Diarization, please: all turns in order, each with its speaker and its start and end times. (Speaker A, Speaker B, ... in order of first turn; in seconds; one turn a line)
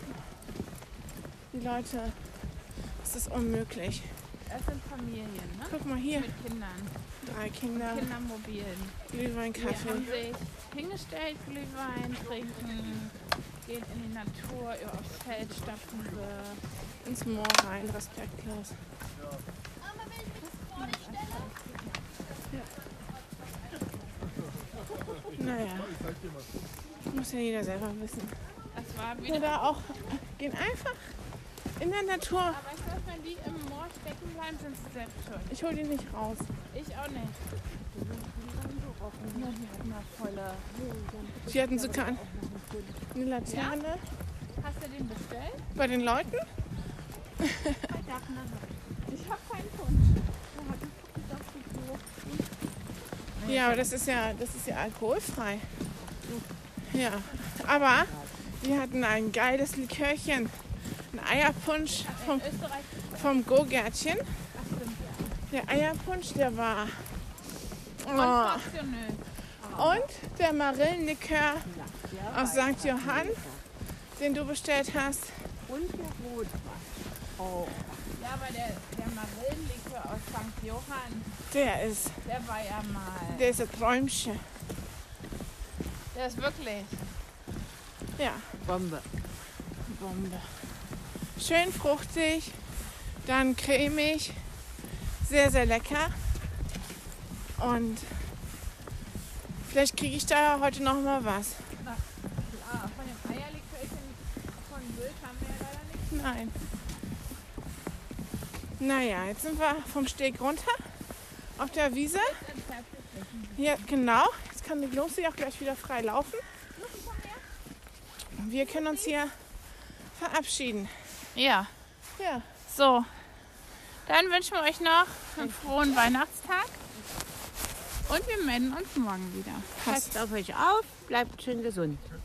Speaker A: 1.5-2.2
Speaker A: 3.0-4.1
Speaker B: 4.5-6.9
Speaker A: 5.7-6.3
Speaker A: 7.2-8.1
Speaker B: 7.7-9.0
Speaker A: 9.1-10.2
Speaker B: 9.5-16.6
Speaker A: 17.0-18.8
Speaker C: 20.4-22.0
Speaker B: 20.7-21.5
Speaker A: 25.3-26.0
Speaker A: 27.1-28.4
Speaker B: 28.7-29.7
Speaker A: 29.3-31.1
Speaker A: 31.8-32.6
Speaker B: 32.5-35.5
Speaker A: 35.5-36.5
Speaker B: 36.7-37.4
Speaker C: 37.9-39.5
Speaker B: 39.3-40.6
Speaker C: 40.7-43.0
Speaker A: 41.5-42.2
Speaker A: 43.1-44.0
Speaker B: 43.5-43.8
Speaker B: 44.6-45.7
Speaker A: 45.8-46.5
Speaker A: 47.4-47.8
Speaker C: 47.8-48.8
Speaker B: 49.1-50.3
Speaker C: 50.5-52.4
Speaker C: 53.4-53.9
Speaker A: 53.4-55.7
Speaker C: 56.0-56.5
Speaker A: 56.9-60.5
Speaker C: 57.9-58.3
Speaker A: 61.1-62.5
Speaker B: 61.9-63.4
Speaker A: 63.1-64.2
Speaker B: 64.5-65.3
Speaker A: 65.5-67.1
Speaker A: 68.0-68.7
Speaker B: 68.1-69.2
Speaker C: 69.6-70.0
Speaker A: 69.7-71.7
Speaker C: 71.7-73.6
Speaker A: 72.3-73.4
Speaker A: 74.2-75.5
Speaker C: 75.7-78.0
Speaker B: 78.2-81.3
Speaker A: 81.5-82.2
Speaker B: 82.2-83.6
Speaker A: 83.3-84.4
Speaker B: 86.1-87.0
Speaker A: 88.2-88.6
Speaker C: 88.6-89.1
Speaker A: 89.9-90.5
Speaker A: 91.4-92.6
Speaker A: 93.2-94.4
Speaker A: 95.2-96.2
Speaker A: 97.6-98.1
Speaker A: 99.7-101.6
Speaker B: 101.8-106.1
Speaker A: 106.1-106.5
Speaker A: 108.8-110.8
Speaker A: 111.6-112.4
Speaker B: 112.1-113.7
Speaker A: 113.6-116.4
Speaker B: 116.7-117.4
Speaker A: 118.4-119.3
Speaker B: 118.6-119.1
Speaker A: 120.1-120.9
Speaker B: 121.3-121.7
Speaker A: 122.2-122.5
Speaker B: 122.7-123.1
Speaker B: 124.0-126.8
Speaker B: 128.1-129.7
Speaker A: 129.8-130.1
Speaker C: 129.8-132.1